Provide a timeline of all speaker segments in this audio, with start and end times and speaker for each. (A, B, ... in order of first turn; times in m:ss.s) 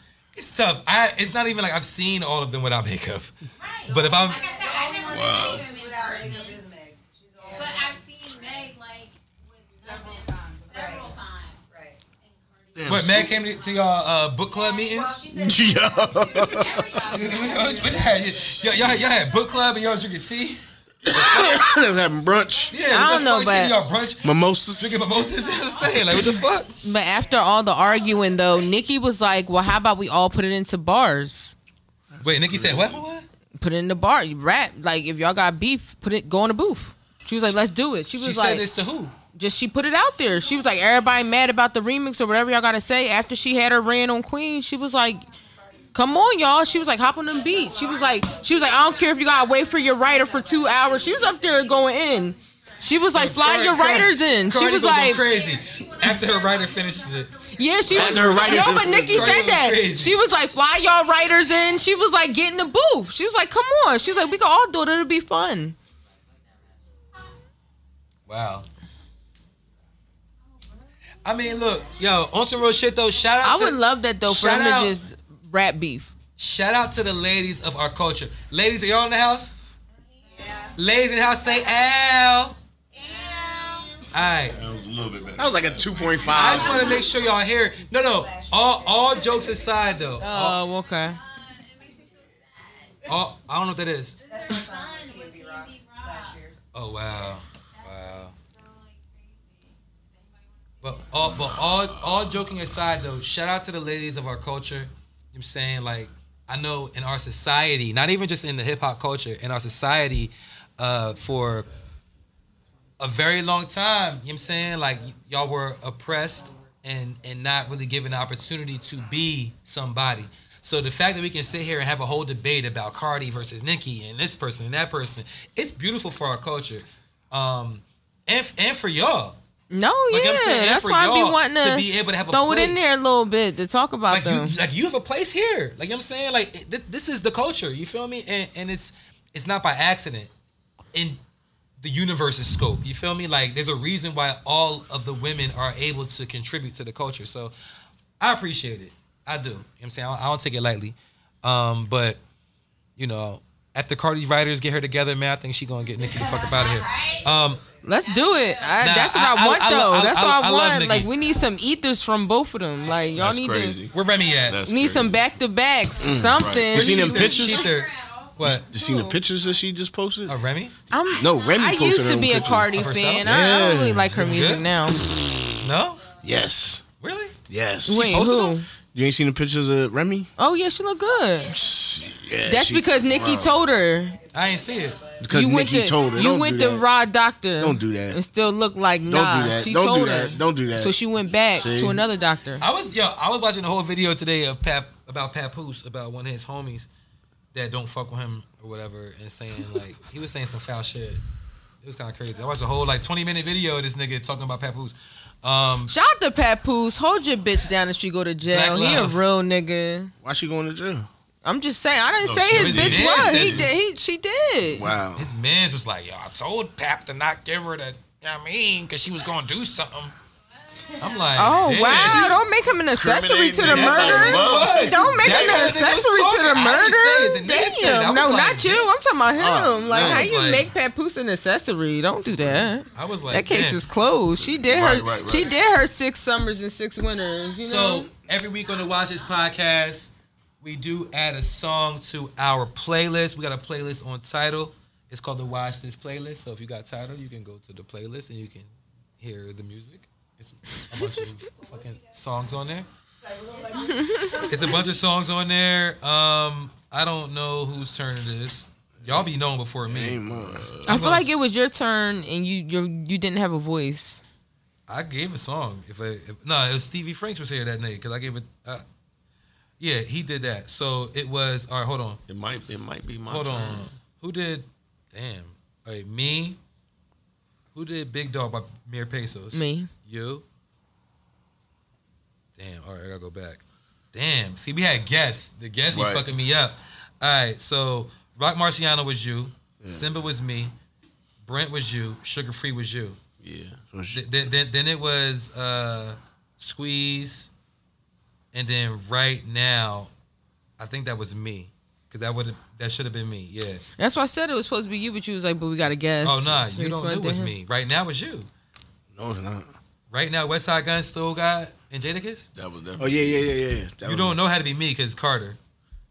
0:00.3-0:03.3 A
0:03.5-0:06.6 B
0:03.9-0:04.4 A
0:04.0-0:08.7 C
0:05.0-0:05.7 D
0:07.4-0:13.9 B
0:09.8-0:12.0 C
0:12.8-0:13.2 D
0:12.8-0:15.2 A
0:13.0-0:13.2 E
0:14.5-0:20.0 B
0:14.5-0:19.4 C
0:15.3-0:17.1 E
0:17.1-0:21.6 A
0:21.0-0:22.7 E
0:21.1-0:26.8 B
0:22.7-0:26.7 A
0:22.8-0:23.8 F
0:24.2-0:25.0 E
0:26.8-0:31.5 F
0:27.0-0:27.6 C
0:27.9-0:28.8 B
0:32.2-0:33.2 A
0:32.5-0:33.0 D
0:33.6-0:38.7 F
0:38.2-0:39.1 A
0:39.3-0:45.2 F
0:40.3-0:41.3 B
0:45.2-0:49.3 C
0:45.3-0:46.2 B
0:45.9-0:55.2 F
0:47.2-0:54.0 B
0:50.2-0:51.5 C
0:53.1-0:57.3 A
0:55.0-1:02.7 B
0:57.5-1:05.7 F
0:57.9-1:00.2 A
0:57.9-0:59.4 E
1:04.0-1:04.4 B
1:06.1-1:07.4 B
1:08.3-1:08.7 A
1:11.2-1:15.0 A
1:11.4-1:12.0 C
1:13.4-1:16.1 F
1:16.4-1:19.5 A
1:20.0-1:20.7 B
1:20.2-1:20.8 C
1:20.8-1:22.6 A
1:22.9-1:24.5 B
1:23.0-1:24.0 C
1:24.1-1:24.6 A
1:24.4-1:27.1 D
1:25.4-1:27.0 E
1:26.3-1:30.6 A
1:26.5-1:27.3 C
1:28.0-1:30.0 C
1:30.2-1:31.2 F
1:30.9-1:33.1 B
1:33.0-1:34.2 A
1:34.2-1:36.4 B
1:34.2-1:36.6 C
1:36.7-1:38.3 A
1:37.7-1:41.6 B
1:40.8-1:51.7 A
1:41.3-1:42.5 D
1:53.0-2:09.4 A
2:09.7-2:14.5 F
2:10.1-2:12.9 A
2:14.1-2:20.3 A
2:20.9-2:21.2 A
2:21.8-2:27.5 A
2:28.2-2:32.2 A
2:33.0-2:37.6 A
2:35.9-2:38.0 C
2:36.0-2:37.4 B
2:37.8-2:43.8 F
2:38.0-2:39.0 B
2:38.8-2:41.1 A
2:40.9-2:41.5 B
2:42.7-2:43.3 B
2:43.1-2:45.3 D
2:43.9-2:44.6 A
2:43.9-2:44.6 B
2:44.6-2:47.7 F
2:45.9-2:49.7 B
2:46.0-2:47.7 E
2:46.1-2:46.9 D
2:46.7-2:48.6 A
2:48.4-2:50.4 E
2:48.8-2:49.2 F
2:50.3-2:50.7 A
2:50.9-2:55.0 F
2:50.9-2:53.0 B
2:51.1-2:54.3 E
2:52.7-2:53.4 A
2:54.1-2:54.7 A
2:55.6-2:56.0 A
2:55.7-2:56.3 B
2:56.2-2:56.8 E
2:57.0-2:57.3 A
2:57.5-2:58.2 E
2:57.8-2:58.6 F
2:58.0-2:58.6 A
2:58.9-3:00.3 E
3:00.4-3:01.6 F
3:01.2-3:02.3 B
3:01.5-3:03.6 E
3:02.4-3:04.2 F
3:02.9-3:05.4 C
3:04.3-3:05.0 A
3:04.4-3:05.0 B
3:05.2-3:06.8 E
3:05.3-3:12.6 F
3:07.6-3:08.2 E
3:09.1-3:11.0 E
3:11.2-3:12.0 B
3:11.6-3:12.0 E
3:12.6-3:16.9 A
3:17.5-3:21.2 A
3:21.8-3:26.0 A
3:25.9-3:30.1 F
3:28.4-3:29.2 A
3:30.2-3:31.1 E
3:31.4-3:34.9 F
3:32.2-3:33.7 D
3:32.5-3:33.7 A
3:34.7-3:35.3 E
3:34.8-3:35.0 D
3:35.1-3:40.1 A
3:40.5-3:42.7 B
3:41.0-3:42.4 A
3:41.4-3:58.1 F
3:41.8-3:42.3 D
3:42.9-3:45.9 D
3:43.6-3:48.9 A
3:49.4-3:50.4 E
3:49.9-3:50.7 A
3:52.4-3:53.8 A
3:54.3-3:55.7 D
3:57.6-4:12.9 A
4:11.4-4:15.0 C
4:13.5-4:14.7 B
4:13.9-4:14.4 F
4:14.5-4:20.2 A
4:19.8-4:20.7 E
4:20.3-4:21.0 D
4:20.8-4:21.4 A
4:20.9-4:24.2 F
4:24.9-4:28.8 A
4:29.8-4:32.2 A
4:32.3-4:33.9 D
4:33.3-4:36.6 A
4:37.7-4:40.4 A
4:39.5-4:39.9 F
4:42.6-4:50.7 A
4:45.9-4:46.3 D
4:49.8-4:50.1 E
4:51.4-4:53.2 A
4:53.4-4:53.8 D
4:53.9-4:54.2 E
4:54.1-4:57.5 A
4:58.5-5:00.1 A
5:00.8-5:03.8 A
5:04.0-5:07.5 F
5:06.2-5:08.5 A
5:09.1-5:09.7 E
5:10.1-5:12.5 A
5:12.5-5:13.5 D
5:13.0-5:14.4 E
5:14.0-5:15.6 A